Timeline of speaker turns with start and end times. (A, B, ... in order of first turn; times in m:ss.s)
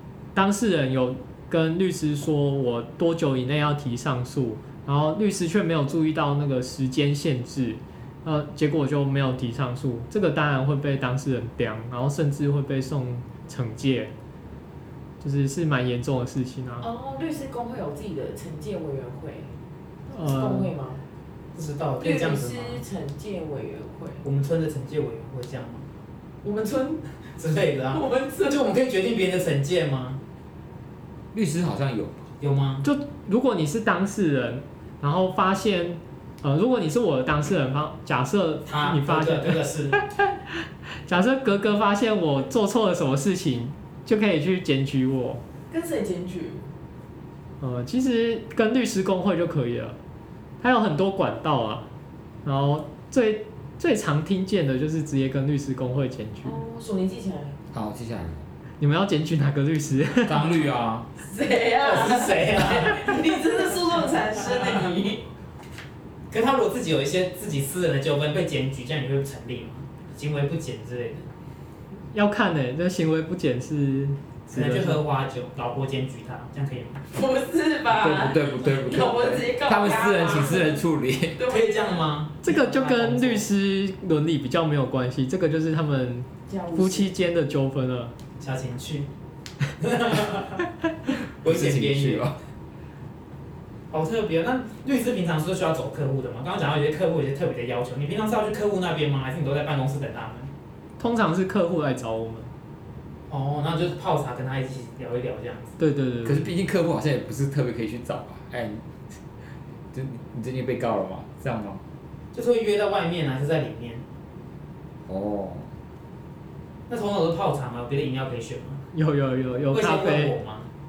0:00.3-0:14.1 A
0:15.2-0:16.9 A
0:16.8-0:19.5 B
0:20.1-0:20.7 A
0:20.2-0:21.0 B
0:21.5-0:22.8 C
0:22.0-0:24.2 B
0:24.2-0:25.8 C
0:26.4-0:27.0 B
0:27.4-0:30.2 C
0:27.9-0:28.6 B
0:31.3-0:32.2 D
0:32.4-0:32.8 C
0:32.8-0:45.4 A
0:38.7-0:40.0 C
0:45.7-0:46.7 B
0:47.6-0:50.0 A
0:50.6-0:51.9 A
0:52.4-0:56.6 A
0:56.4-0:57.6 B
0:57.7-0:58.4 D
0:58.8-1:00.5 A
1:00.2-1:01.1 D
1:01.2-1:05.2 B
1:01.8-1:03.4 C
1:06.3-1:11.2 C
1:12.1-1:15.0 A
1:14.5-1:17.0 C
1:17.1-1:20.8 B
1:17.9-1:21.4 D
1:21.3-1:22.1 B
1:21.5-1:23.5 C
1:22.4-1:28.1 A
1:26.5-1:27.1 B
1:28.4-1:29.1 C
1:29.8-1:30.6 C
1:31.4-1:32.4 D
1:31.4-1:32.2 C
1:33.9-1:40.5 C
1:41.0-1:42.5 A
1:43.3-1:45.8 C
1:45.8-1:46.5 A
1:46.2-1:48.8 D
1:49.9-1:51.8 D
1:52.3-1:54.0 C
1:55.1-1:55.7 D
1:56.9-1:58.8 C
1:58.9-2:00.3 A
1:59.7-2:00.7 C